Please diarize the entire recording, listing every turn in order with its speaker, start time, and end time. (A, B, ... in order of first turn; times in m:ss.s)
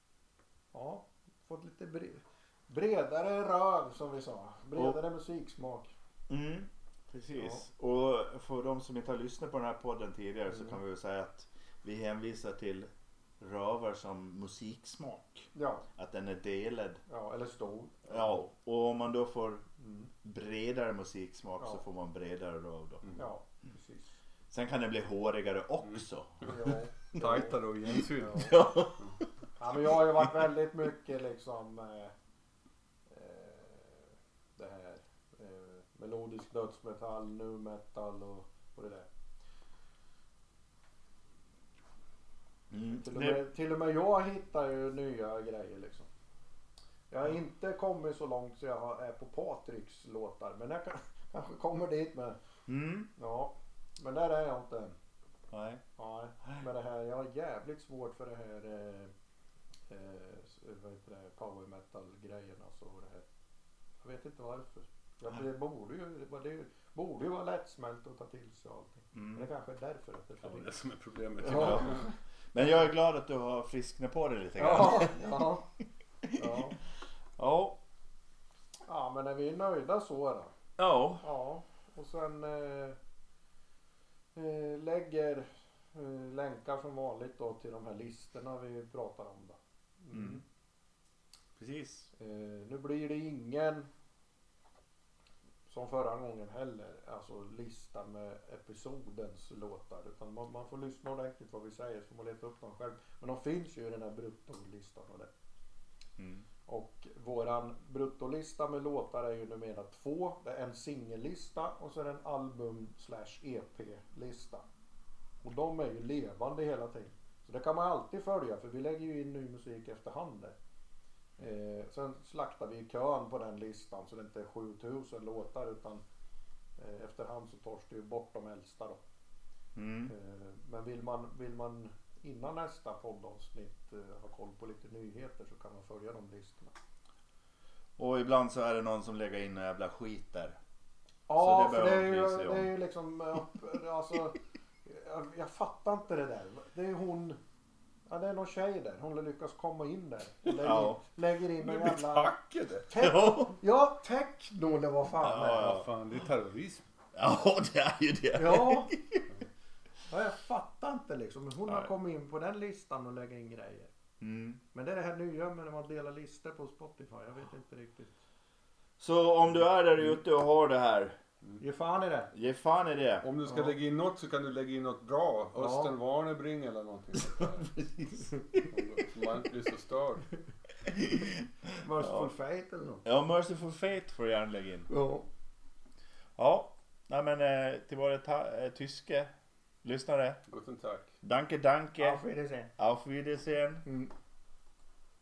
0:00.7-0:05.9 A
0:06.3-0:17.0 B
0:07.3-0:07.6 A
0:15.6-0:15.8 A
0:17.1-0:18.2 A
0:18.1-0:19.6 B
0:19.8-0:20.1 A
0:20.2-0:23.1 B
0:23.2-0:24.1 A
0:24.5-0:27.4 B
0:25.8-0:26.6 C
0:26.4-0:27.6 A
0:27.1-0:29.1 C
0:28.2-0:28.6 A
0:28.2-0:30.3 B
0:29.6-0:32.1 A
0:33.1-0:39.1 A
0:42.7-0:43.4 B
0:43.0-0:46.1 A
0:47.1-0:52.4 A
0:52.7-0:53.1 B
0:53.2-0:55.0 A
0:55.5-0:55.8 B
0:56.0-0:59.1 A
0:59.9-1:03.2 A
1:04.0-1:10.7 A
1:09.1-1:09.5 B
1:10.4-1:12.1 C
1:11.4-1:12.1 A
1:11.4-1:15.2 B
1:14.6-1:15.6 A
1:16.2-1:16.7 B
1:16.3-1:16.8 A
1:17.4-1:17.8 B
1:18.9-1:20.5 A
1:20.8-1:21.3 B
1:21.2-1:23.0 A
1:24.4-1:30.4 A
1:30.1-1:30.4 B
1:31.6-1:32.1 B
1:32.2-1:33.9 A
1:35.7-1:45.3 A
1:46.2-1:46.5 B
1:46.7-1:54.6 A
1:55.4-2:00.6 A
2:01.4-2:06.0 A
2:06.8-2:09.0 A
2:09.8-2:10.1 B
2:10.1-2:16.7 A
2:18.0-2:20.6 B
2:21.3-2:27.4 A
2:21.4-2:22.7 B
2:28.1-2:32.3 A
2:30.6-2:31.0 B
2:31.6-2:32.9 C
2:32.9-2:35.8 A
2:33.0-2:33.6 B
2:35.2-2:35.9 B
2:35.6-2:36.8 C
2:37.2-2:39.3 B
2:38.4-2:38.9 A
2:40.1-2:43.9 A
2:44.2-2:44.6 B
2:44.7-2:48.1 A
2:49.0-2:51.2 B
2:51.6-2:52.3 A
2:52.3-2:53.2 B
2:53.2-2:57.7 C
2:55.6-2:55.9 A
2:57.4-2:58.6 B
2:58.7-3:00.3 C
3:00.8-3:02.3 B
3:01.8-3:03.0 A
3:03.0-3:04.9 B
3:04.9-3:05.3 A
3:06.4-3:09.3 B
3:09.8-3:10.4 B
3:10.5-3:11.1 C
3:11.2-3:12.2 B
3:12.0-3:12.7 A
3:12.8-3:13.9 B
3:13.8-3:14.1 A